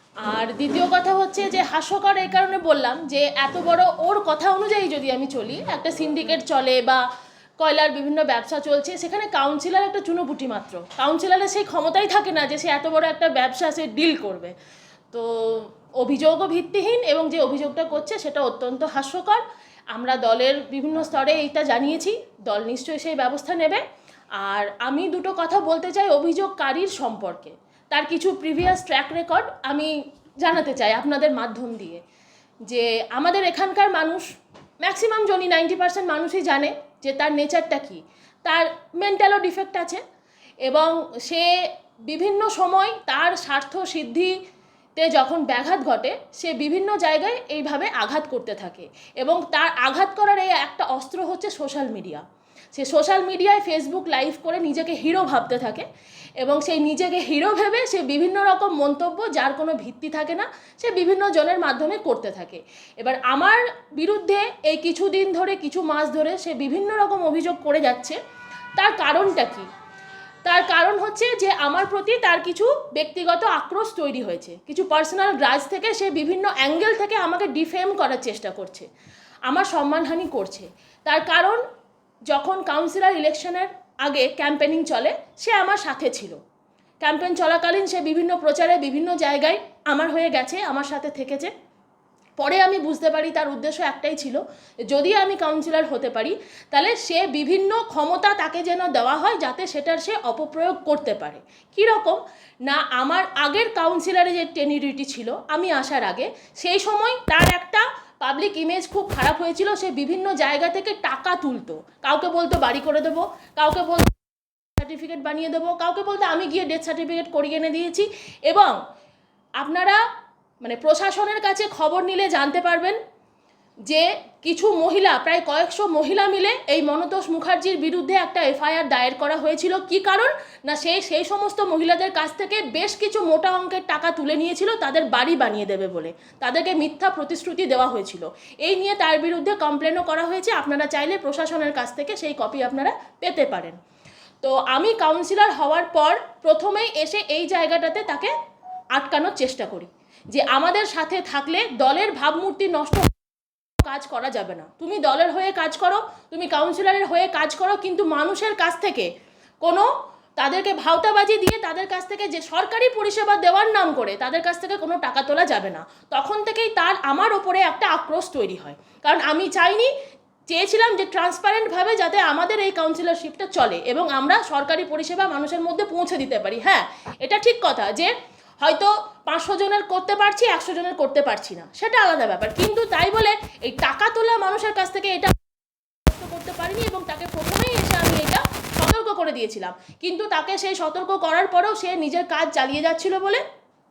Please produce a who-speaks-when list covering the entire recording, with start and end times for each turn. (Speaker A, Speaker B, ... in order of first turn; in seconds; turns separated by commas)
Speaker A: 0.2-7.0, Speaker A: 7.6-14.5, Speaker A: 15.1-19.4, Speaker A: 19.9-23.8, Speaker A: 24.4-32.0, Speaker A: 32.6-34.3, Speaker A: 34.8-40.0, Speaker A: 40.6-41.5, Speaker A: 42.1-44.4, Speaker A: 45.0-52.2, Speaker A: 52.7-55.9, Speaker A: 56.4-68.2, Speaker A: 68.8-69.7, Speaker A: 70.5-78.9, Speaker A: 79.5-81.6, Speaker A: 82.3-86.4, Speaker A: 87.0-91.5, Speaker A: 92.4-114.1, Speaker A: 114.8-118.8, Speaker A: 119.6-120.0, Speaker A: 120.6-123.0, Speaker A: 123.9-143.8, Speaker A: 144.4-148.3, Speaker A: 148.9-153.1, Speaker A: 153.8-159.1, Speaker A: 159.6-169.9, Speaker A: 170.5-185.3, Speaker A: 186.0-193.4